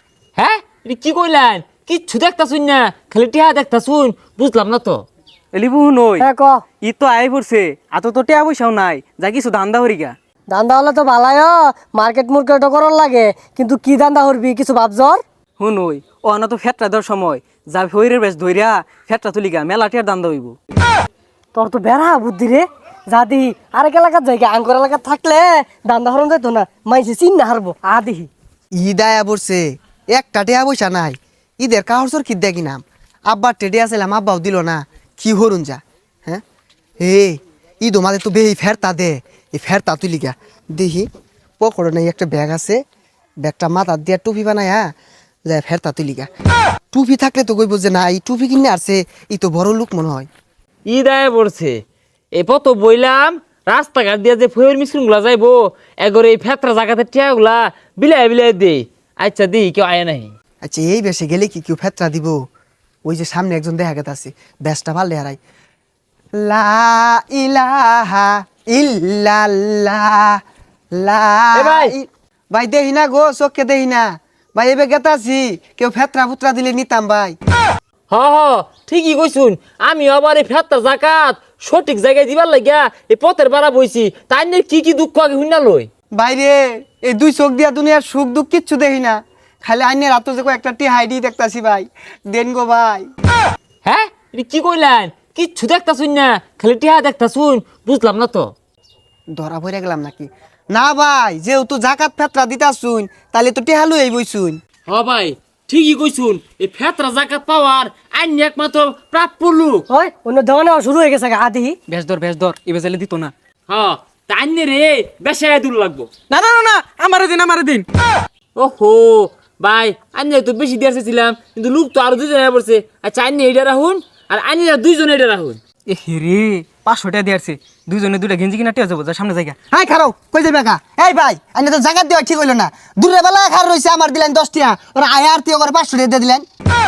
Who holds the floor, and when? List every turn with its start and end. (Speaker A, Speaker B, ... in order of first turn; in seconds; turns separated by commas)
Speaker A: 0.4-5.0, Speaker B: 5.5-6.3, Speaker C: 6.2-6.6, Speaker B: 6.8-10.2, Speaker C: 10.5-15.2, Speaker B: 15.6-20.6, Speaker C: 21.5-28.3, Speaker D: 28.8-36.4, Speaker D: 37.0-41.1, Speaker D: 41.6-42.8, Speaker D: 43.4-44.9, Speaker D: 45.5-46.3, Speaker D: 46.9-50.3, Speaker A: 50.9-51.8, Speaker A: 52.4-60.3, Speaker D: 60.6-62.4, Speaker D: 63.0-65.4, Speaker D: 66.4-70.4, Speaker D: 71.0-77.4, Speaker A: 71.6-71.9, Speaker A: 78.1-85.9, Speaker D: 86.1-93.1, Speaker A: 93.8-98.5, Speaker D: 99.3-104.6, Speaker A: 104.9-109.8, Speaker C: 109.9-111.8, Speaker B: 111.9-113.3, Speaker A: 113.7-116.1, Speaker B: 116.3-117.9, Speaker A: 118.6-125.6, Speaker B: 125.9-129.6, Speaker D: 129.7-136.5